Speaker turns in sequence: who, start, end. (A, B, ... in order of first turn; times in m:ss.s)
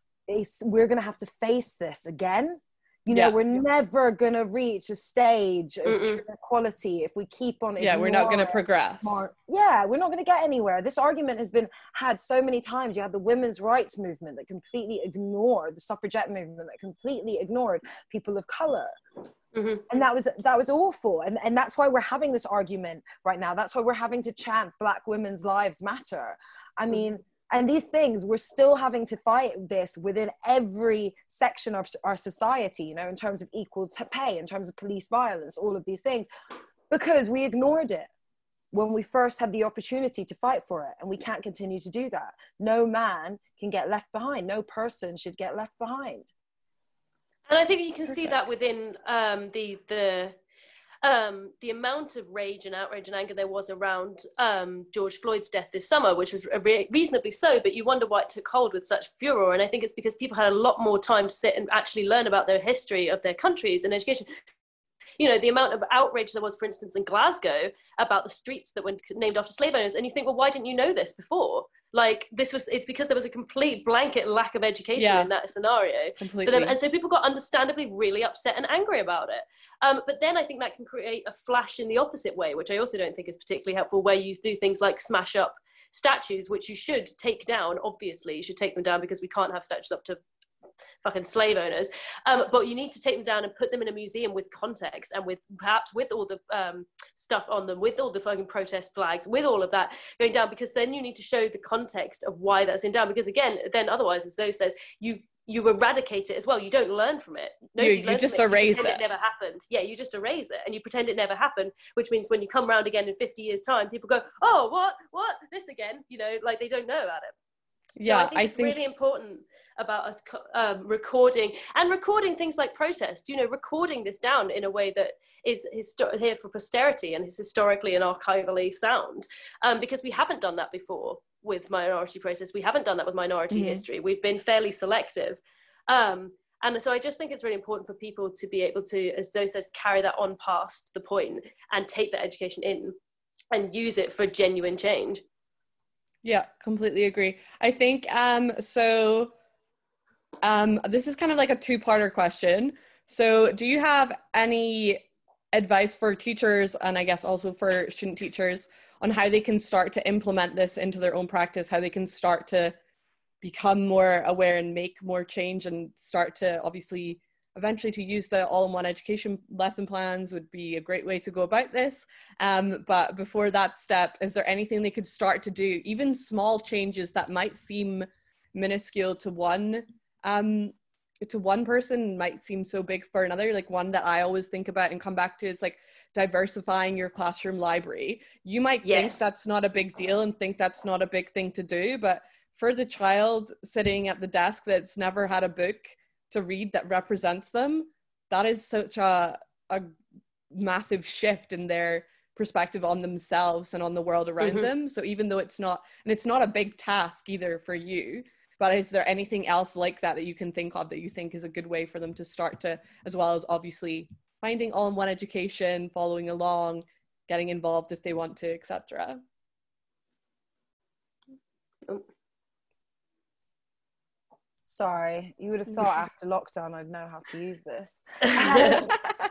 0:00.3-0:18.9 A
0:03.1-0:03.5 B
0:05.9-0:06.2 C
0:07.8-0:09.2 B
0:19.5-0:19.8 C
0:19.9-0:36.3 A
0:36.9-0:38.1 A
0:38.7-0:46.3 A
0:47.5-0:50.4 C
0:48.1-0:48.4 B
0:51.0-1:04.3 C
1:05.2-1:30.2 C
1:15.0-1:15.3 B
1:16.2-1:16.8 B
1:31.0-1:57.4 C
1:47.8-1:49.0 B
1:58.0-1:58.8 B
1:58.0-2:23.0 C
2:13.5-2:13.8 B
2:23.5-2:25.2 C
2:26.2-2:29.3 B
2:30.4-2:42.8 B
2:43.4-3:19.9 B
3:08.8-3:09.3 C
3:20.5-3:39.2 B
3:24.4-3:24.7 C
3:44.7-3:48.9 A
3:48.2-3:48.9 C